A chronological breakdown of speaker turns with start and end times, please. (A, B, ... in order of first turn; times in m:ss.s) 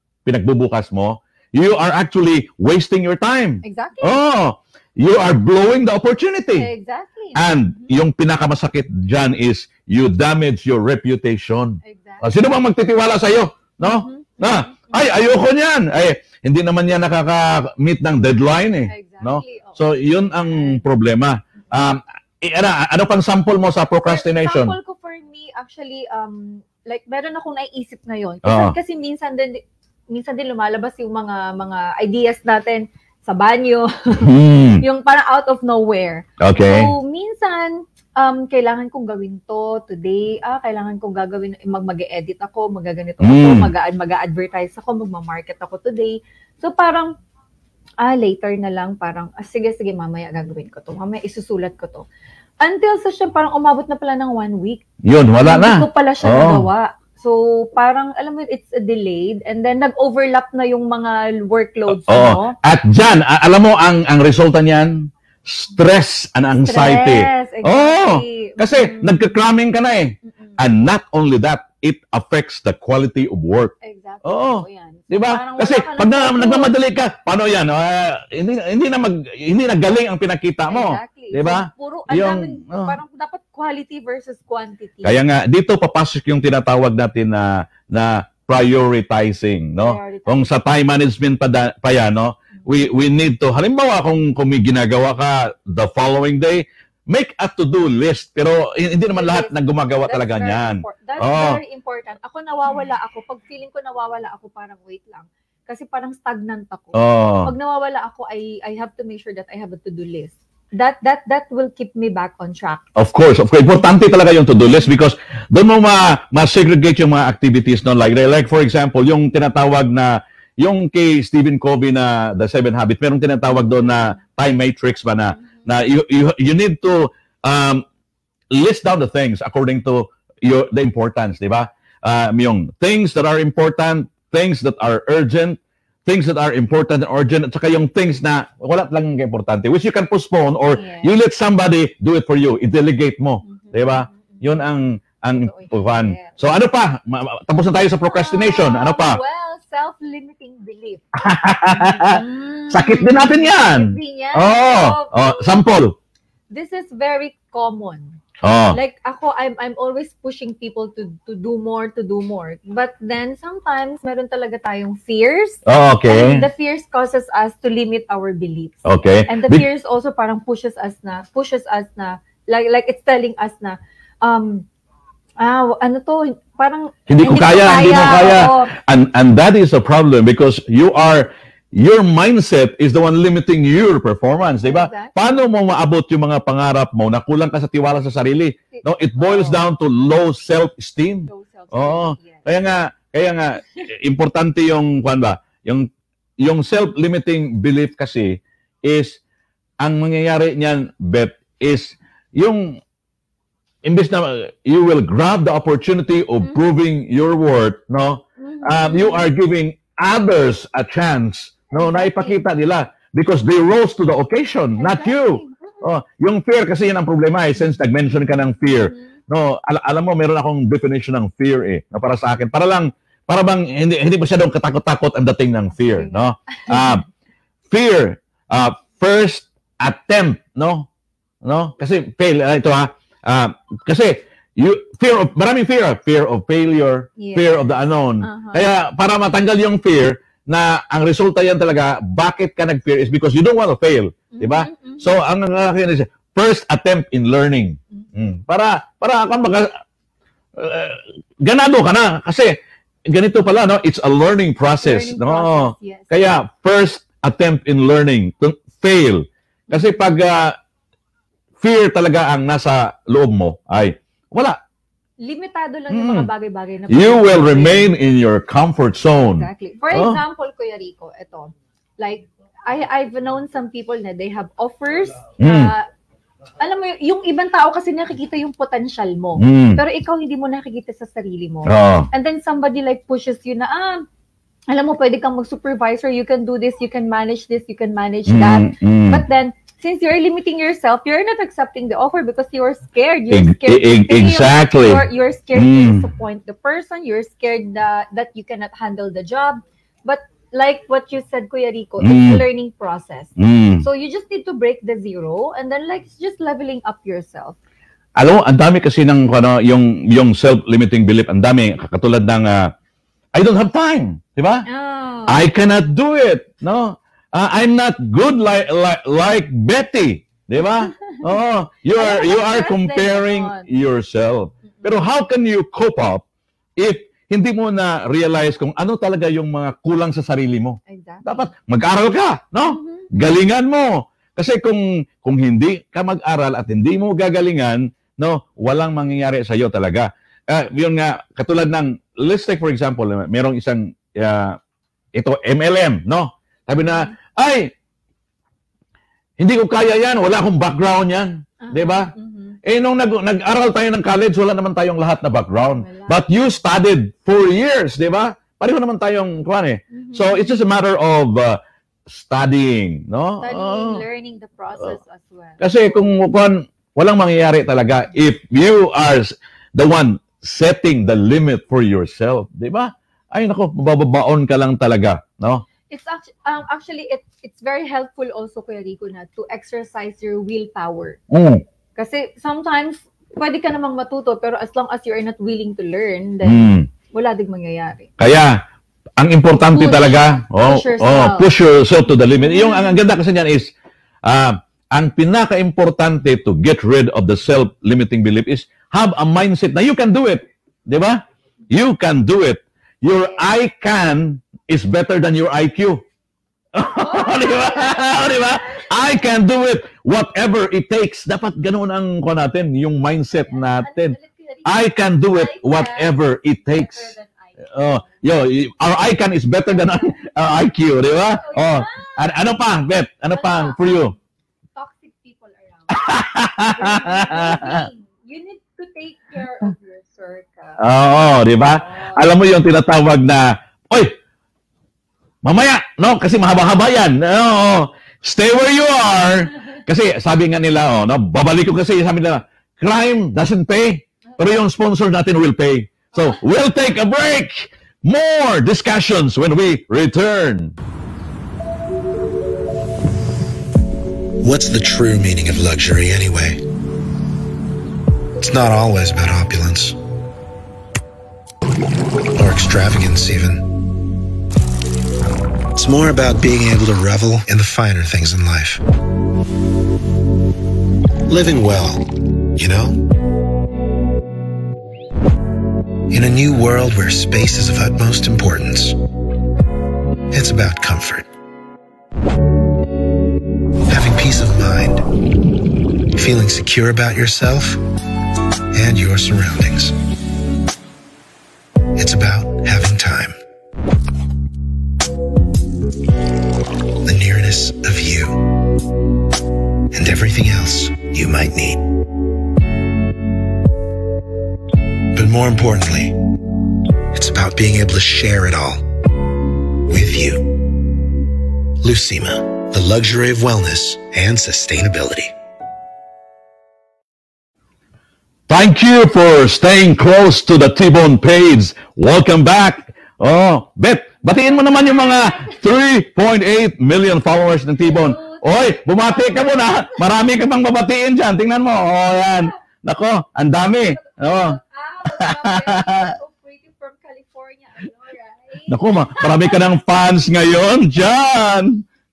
0:00.2-0:06.7 A
0:03.6-0:04.2 B
0:06.6-0:07.9 B
0:07.3-0:24.7 A
0:11.8-0:12.3 B
0:13.8-0:15.1 B
0:18.9-0:20.8 B
0:24.0-0:47.1 B
0:28.4-0:28.8 A
0:34.1-0:34.8 A
0:36.4-0:36.9 A
0:43.2-0:43.7 A
0:48.0-0:52.0 B
0:52.6-0:54.8 B
0:55.0-0:56.7 A
0:55.4-1:02.6 B
1:01.9-1:23.0 A
1:06.7-1:09.3 B
1:10.3-1:10.6 B
1:13.8-1:16.7 B
1:20.7-1:25.2 B
1:25.0-1:41.6 A
1:29.8-1:30.5 B
1:32.6-1:32.9 B
1:39.1-1:39.5 B
1:40.0-1:52.8 B
1:46.9-1:47.5 A
1:53.0-2:07.8 A
2:03.5-2:04.2 B
2:05.3-2:05.7 B
2:08.5-2:29.2 A
2:20.7-2:21.1 B
2:23.4-2:24.5 B
2:25.3-2:26.4 B
2:28.1-2:31.0 B
2:31.1-2:35.9 A
2:31.8-2:35.6 B
2:36.5-2:38.2 B
2:38.4-2:38.8 A
2:38.7-2:54.6 B
2:45.6-2:46.4 A
2:48.8-2:49.6 A
2:55.4-2:58.7 B
2:57.1-3:15.9 A
3:04.6-3:05.2 B
3:08.7-3:09.6 B
3:11.3-3:12.4 B
3:16.4-3:19.2 A
3:19.8-3:22.8 A
3:23.8-3:47.0 A
3:28.4-3:29.3 B
3:31.7-3:32.4 B
3:34.8-3:35.8 B
3:38.6-3:39.1 B
3:45.8-3:47.0 B
3:47.7-3:50.9 A
3:51.4-4:09.7 A
3:57.2-3:57.6 B
3:58.2-3:58.6 B
4:04.3-4:05.1 B
4:10.6-4:12.5 A
4:13.1-4:20.5 A
4:14.8-4:16.4 B
4:19.7-4:20.1 B
4:21.6-4:24.6 A
4:25.2-4:27.9 B
4:25.9-4:26.3 A
4:26.9-4:30.2 A
4:29.2-4:35.8 B
4:35.4-4:35.7 A
4:36.6-4:44.0 B
4:39.4-4:39.8 A
4:41.6-4:42.1 A
4:44.7-5:07.6 B
4:48.3-4:49.2 A
4:53.3-4:55.0 A
4:55.5-4:56.0 A
5:02.0-5:02.4 A
5:03.4-5:03.9 A
5:08.2-5:12.7 A
5:13.3-5:14.6 A
5:14.6-5:15.4 B
5:15.3-5:26.2 A
5:20.6-5:21.2 B
5:22.0-5:23.7 B
5:26.8-5:44.6 A
5:30.9-5:31.5 B
5:32.7-5:33.2 B
5:45.1-5:47.7 A
5:46.8-5:47.1 B
5:49.4-5:52.1 A
5:51.6-5:52.6 B
5:52.6-6:04.0 A
5:55.8-5:56.6 B
5:59.9-6:00.6 B
6:03.4-6:05.8 B
6:05.6-6:15.6 A
6:15.9-6:21.2 B
6:21.3-6:21.6 A
6:22.0-6:28.1 B
6:26.4-6:26.9 A
6:28.2-6:28.6 A
6:29.2-6:33.7 A
6:29.7-6:31.5 B
6:32.0-6:33.0 B
6:34.2-6:46.0 A
6:43.1-6:43.4 B
6:46.7-6:57.1 A
6:46.9-6:49.3 B
6:53.3-6:58.2 B
6:57.7-7:04.1 A
6:59.7-7:00.5 B
7:01.1-7:02.3 B
7:03.3-7:04.2 B
7:04.7-7:06.1 B
7:05.9-7:07.9 A
7:06.7-7:10.8 B
7:10.8-7:14.1 A
7:11.8-7:12.2 B
7:15.4-7:30.7 A
7:26.1-7:26.4 B
7:34.4-7:36.6 C
7:38.4-7:40.0 C
7:42.4-7:43.7 C
7:45.7-7:48.8 C
7:51.3-7:53.0 C
7:56.1-7:59.0 C
8:00.3-8:01.3 C
8:03.9-8:05.0 C
8:06.1-8:07.8 C
8:08.7-8:09.9 C
8:12.0-8:13.4 C
8:17.0-8:18.5 C
8:19.9-8:21.8 C
8:25.1-8:26.2 C
8:27.1-8:28.8 C
8:29.8-8:30.6 C
8:31.8-8:35.3 C
8:38.5-8:54.6 A
8:44.2-8:45.6 B
8:47.8-8:50.2 B
8:52.2-8:52.6 B
8:53.8-8:59.6 B
8:55.2-8:56.1 A
8:58.7-9:01.8 A